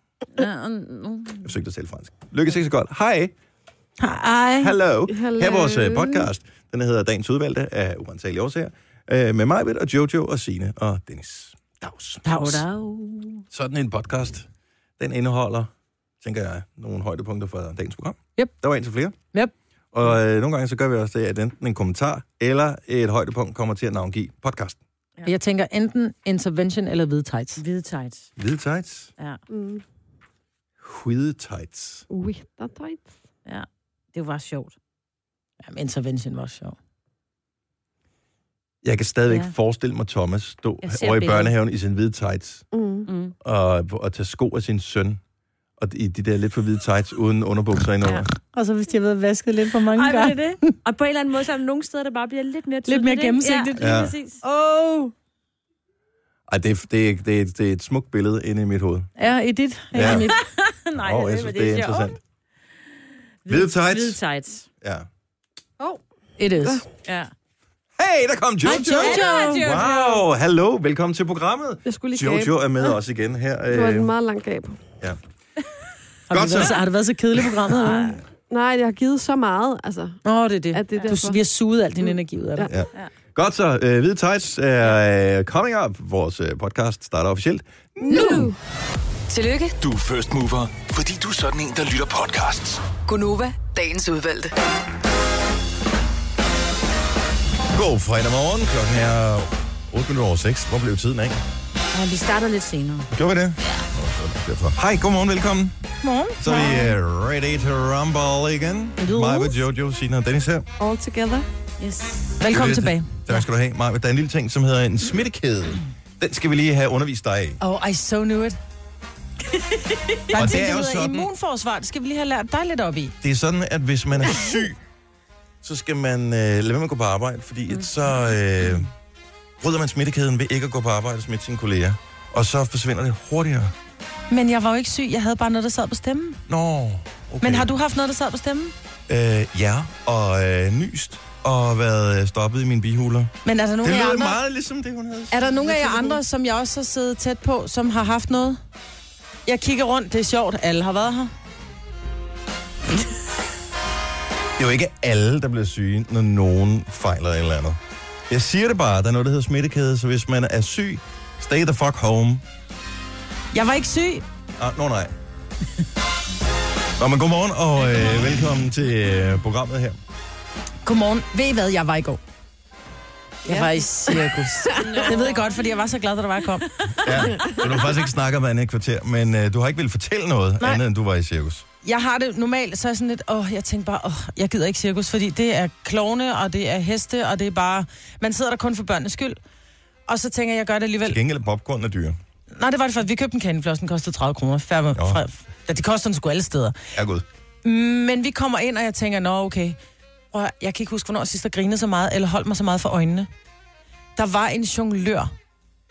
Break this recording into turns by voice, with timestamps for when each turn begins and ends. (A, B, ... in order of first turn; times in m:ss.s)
0:00.4-0:01.5 A
0:01.4-0:03.3 B
0:04.0-0:04.8 C
0:04.6-0:12.6 B
0:05.1-0:06.3 D
0:12.2-0:13.4 C
0:13.5-0:14.5 B
0:15.0-0:19.2 B
0:19.9-0:24.8 B
0:25.2-0:27.6 C
0:27.6-0:28.3 A
0:28.4-0:29.1 B
0:29.5-0:29.8 D
0:30.8-0:32.0 B
0:32.1-0:33.1 D
0:33.5-0:34.8 A
0:35.6-0:36.8 C
0:38.8-0:42.7 B
0:40.8-0:41.6 A
0:42.7-0:43.1 D
0:43.1-0:43.3 A
0:43.4-0:45.2 B
0:45.8-0:48.3 B
0:48.5-0:50.8 C
0:50.0-0:54.4 A
0:52.9-0:55.1 C
0:53.8-0:54.2 B
0:56.5-0:59.1 B
0:59.2-1:00.4 C
0:59.9-1:00.3 B
1:00.0-1:02.2 A
1:01.0-1:02.2 B
1:03.4-1:04.7 A
1:03.5-1:04.2 B
1:04.8-1:05.1 B
1:06.4-1:06.8 C
1:06.6-1:06.9 D
1:07.0-1:07.3 A
1:08.0-1:14.1 B
1:08.6-1:09.7 C
1:08.8-1:10.2 A
1:11.9-1:12.5 D
1:13.7-1:14.8 D
1:16.3-1:18.2 C
1:16.3-1:16.8 B
1:17.9-1:20.2 D
1:20.2-1:22.7 C
1:20.7-1:21.4 D
1:22.0-1:22.8 D
1:22.7-1:28.5 B
1:28.0-1:28.6 D
1:29.3-1:29.8 E
1:29.8-1:32.8 F
1:33.0-1:34.5 E
1:37.7-1:41.4 B
1:41.9-1:43.1 A
1:43.1-1:45.8 B
1:46.0-1:47.0 C
1:46.4-1:50.7 B
1:49.0-1:49.6 C
1:50.8-1:51.5 D
1:51.8-1:52.4 A
1:52.4-1:53.4 C
1:52.5-1:57.6 B
1:57.6-1:58.6 C
1:59.7-2:00.2 A
2:00.3-2:03.1 C
2:00.3-2:01.3 B
2:03.2-2:04.8 B
2:05.6-2:08.9 B
2:09.6-2:13.7 B
2:14.3-2:16.4 C
2:16.5-2:17.7 B
2:17.4-2:18.7 C
2:19.1-2:26.2 B
2:23.4-2:24.4 C
2:25.3-2:28.6 C
2:29.5-2:31.3 C
2:34.6-2:42.4 B
2:43.5-2:44.2 C
2:44.6-2:45.1 B
2:47.0-2:50.0 B
2:50.8-2:52.2 C
2:53.5-2:56.7 C
2:53.5-2:55.2 D
2:54.8-2:55.7 A
2:57.0-3:01.7 B
3:01.8-3:09.4 C
3:10.1-3:11.2 C
3:11.0-3:12.2 B
3:12.6-3:16.8 C
3:15.0-3:15.2 B
3:16.9-3:17.2 B
3:17.6-3:19.8 C
3:20.3-3:23.3 C
3:24.2-3:25.3 C